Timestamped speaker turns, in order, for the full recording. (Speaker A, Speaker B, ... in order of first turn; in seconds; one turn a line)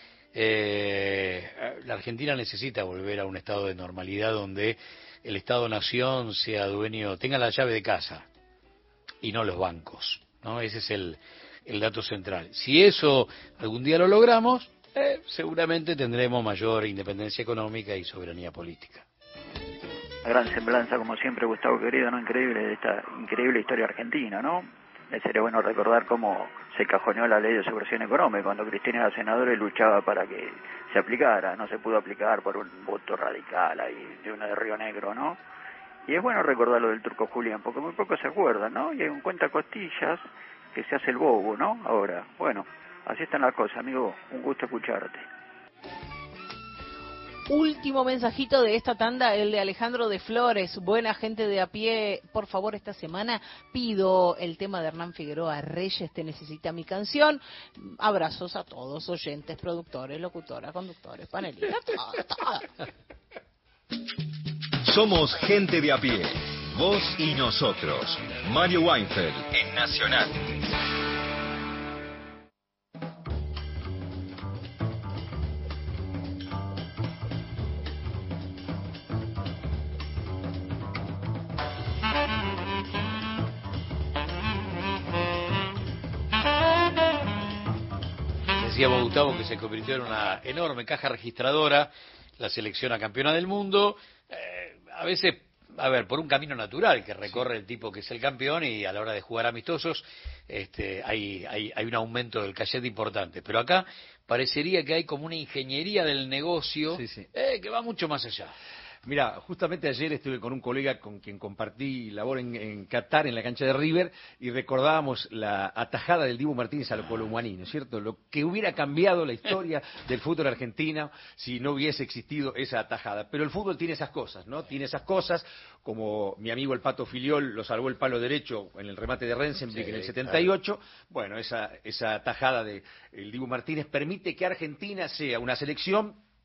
Speaker A: 0.3-8.2
Speaker A: 9.2-19.1
Speaker B: 20.2-35.4
Speaker B: 36.1-45.2
Speaker C: 47.5-62.6
Speaker D: 64.8-70.5
Speaker A: 88.6-108.5
Speaker E: 106.9-107.2
Speaker E: 109.0-136.2
Speaker A: 129.7-130.5